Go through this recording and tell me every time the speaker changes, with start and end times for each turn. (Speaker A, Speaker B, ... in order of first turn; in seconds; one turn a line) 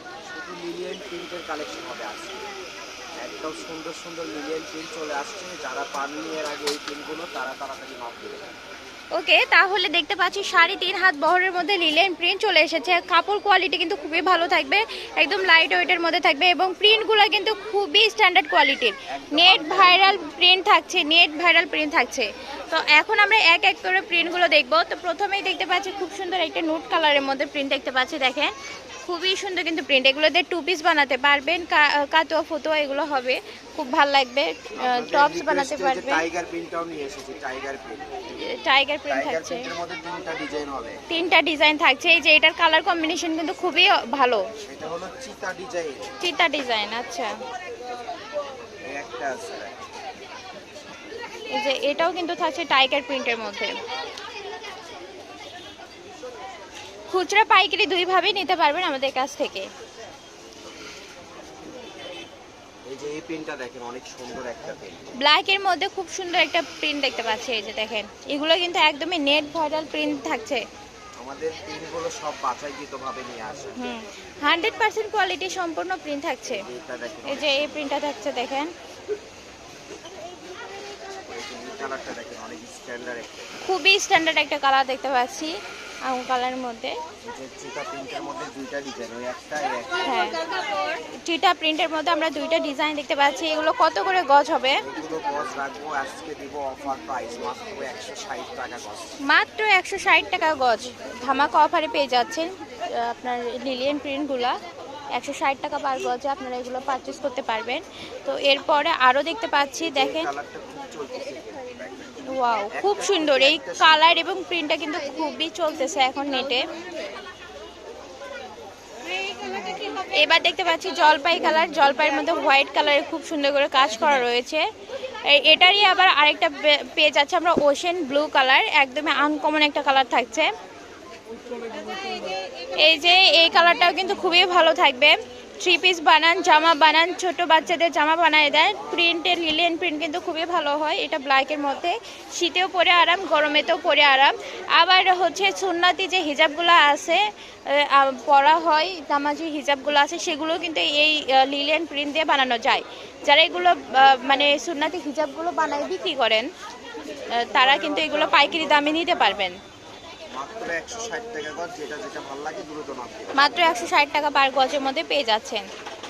Speaker A: 0.3-2.5
Speaker A: 3.2-8.6
Speaker B: 9.1-28.5
Speaker A: 19.1-20.2
Speaker B: 29.0-36.2
Speaker A: 34.8-38.0
Speaker B: 38.4-39.7
Speaker A: 39.1-41.0
Speaker B: 41.1-44.5
Speaker A: 44.7-46.1
Speaker B: 46.2-47.3
Speaker A: 48.9-49.8
Speaker B: 51.5-53.7
Speaker B: 57.1-59.7
Speaker A: 62.9-65.1
Speaker B: 65.2-70.6
Speaker A: 71.2-73.8
Speaker B: 73.8-76.6
Speaker A: 76.5-77.9
Speaker B: 77.3-78.7
Speaker A: 81.2-83.5
Speaker B: 83.6-85.5
Speaker B: 86.1-87.0
Speaker A: 87.2-90.1
Speaker B: 90.0-94.8
Speaker A: 94.8-99.1
Speaker B: 99.3-104.6
Speaker B: 105.2-110.3
Speaker A: 109.8-114.2
Speaker B: 112.3-116.6
Speaker B: 120.1-124.6
Speaker B: 125.3-130.5
Speaker B: 132.8-156.5
Speaker B: 157.4-159.6
Speaker A: 160.3-163.7
Speaker B: 163.4-165.7